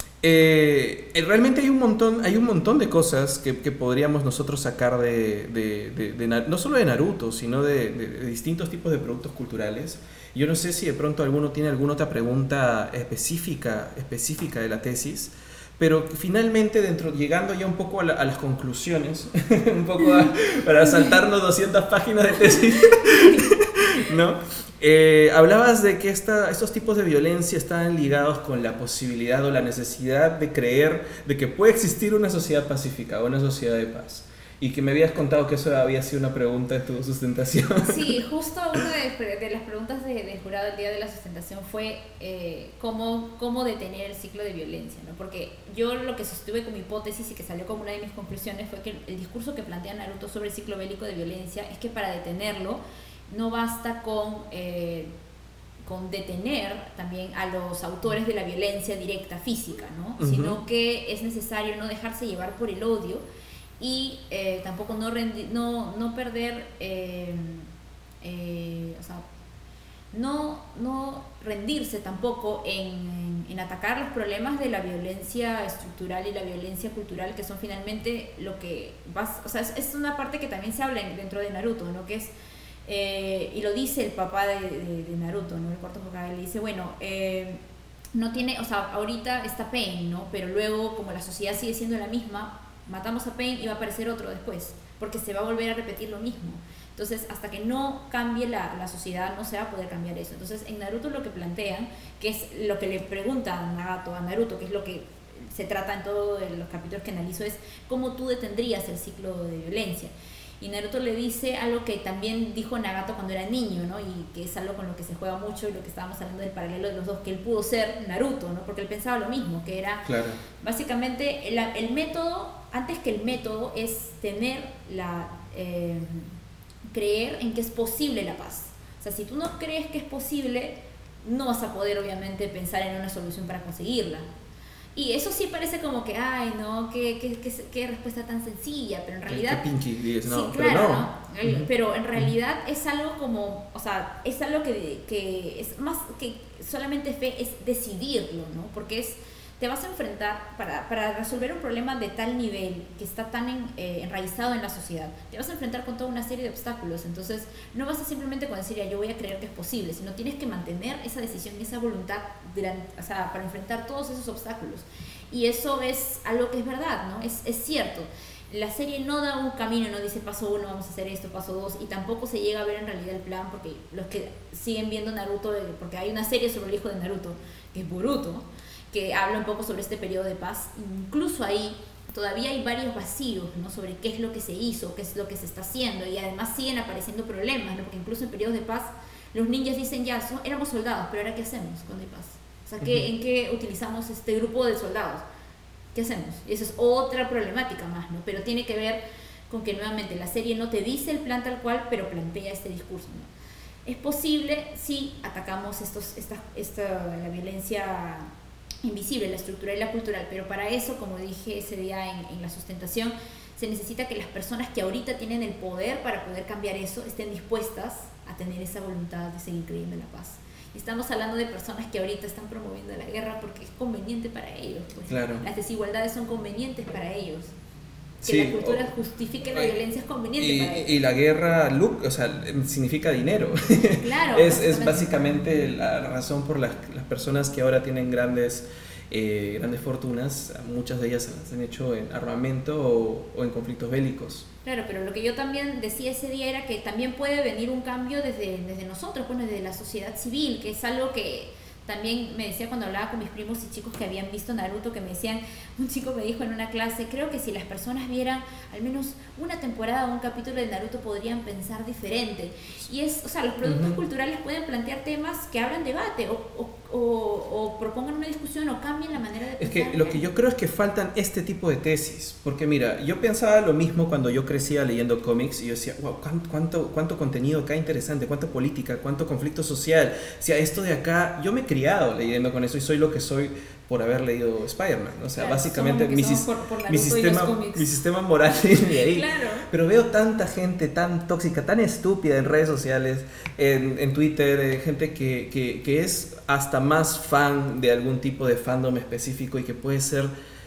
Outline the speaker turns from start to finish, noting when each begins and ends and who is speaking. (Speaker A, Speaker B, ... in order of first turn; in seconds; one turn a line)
Speaker A: 0.2-38.1
Speaker B: 37.8-55.1
Speaker B: 55.8-63.2
Speaker A: 60.2-60.6
Speaker B: 63.8-67.7
Speaker B: 68.2-69.2
Speaker B: 70.1-82.3
Speaker B: 82.8-87.6
Speaker B: 88.1-120.1
Speaker A: 120.0-120.4
Speaker B: 120.6-126.3
Speaker B: 126.9-134.3
Speaker B: 134.9-139.6
Speaker A: 139.3-141.7
Speaker B: 140.2-195.2
Speaker B: 195.9-203.3
Speaker B: 203.8-208.3
Speaker B: 208.8-227.5
Speaker A: 225.1-225.4
Speaker A: 228.2-228.8
Speaker B: 228.2-230.9
Speaker A: 230.4-244.4
Speaker B: 234.0-235.4
Speaker B: 244.6-270.2
Speaker A: 263.6-264.0
Speaker A: 269.6-300.3
Speaker B: 285.4-287.9
Speaker B: 289.0-289.7